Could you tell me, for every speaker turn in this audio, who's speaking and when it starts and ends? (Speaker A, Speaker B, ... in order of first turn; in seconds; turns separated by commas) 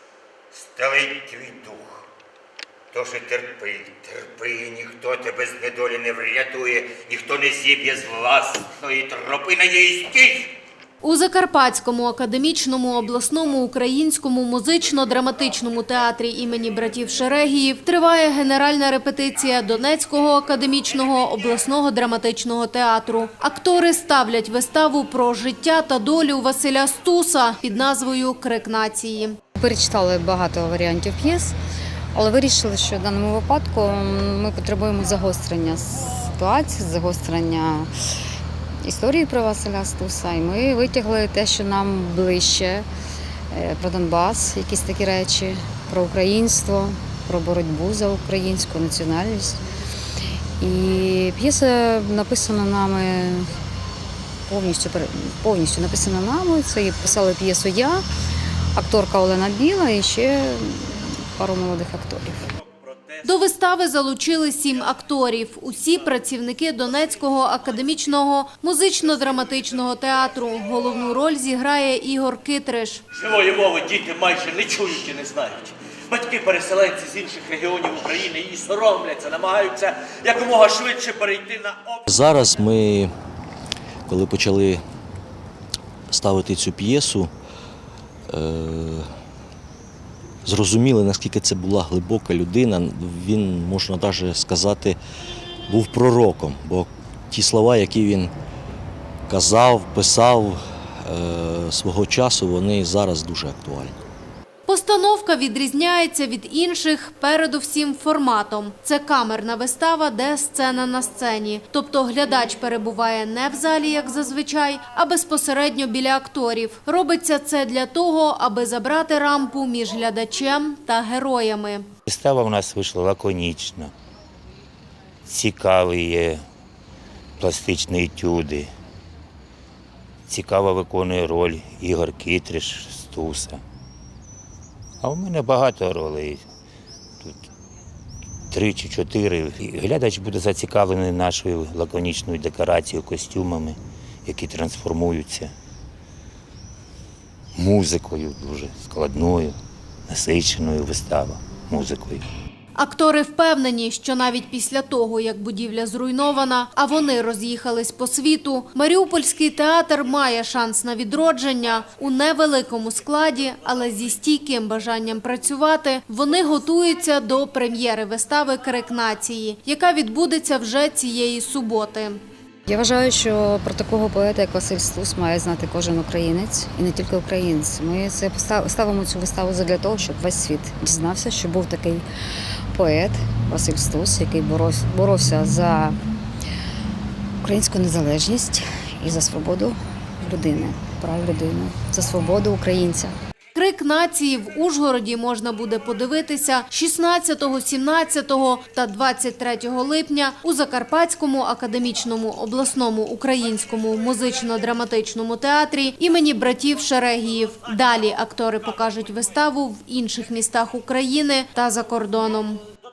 Speaker A: 0.5-2.0, Speaker A: 2.9-10.5, Speaker B: 11.0-29.4, Speaker C: 29.6-31.6, Speaker C: 32.1-37.9, Speaker C: 38.8-42.9, Speaker C: 43.5-49.6, Speaker C: 50.6-53.5, Speaker C: 54.5-58.0, Speaker C: 58.8-62.4, Speaker D: 62.6-63.2, Speaker B: 63.2-73.0, Speaker D: 73.1-82.0, Speaker E: 82.1-83.1, Speaker E: 84.1-84.8, Speaker E: 86.1-87.3, Speaker E: 88.3-89.1, Speaker E: 90.5-95.0, Speaker E: 95.7-98.3, Speaker E: 99.3-104.0, Speaker B: 104.7-121.9, Speaker A: 122.1-123.9, Speaker A: 125.3-126.4, Speaker A: 127.4-128.7, Speaker A: 130.3-133.6, Speaker A: 135.0-136.5, Speaker A: 138.5-145.5, Speaker A: 147.6-149.6, Speaker A: 150.1-152.2, Speaker B: 152.8-172.2, Speaker C: 172.7-182.0, Speaker C: 182.7-186.0, Speaker C: 187.4-193.1, Speaker B: 193.6-212.6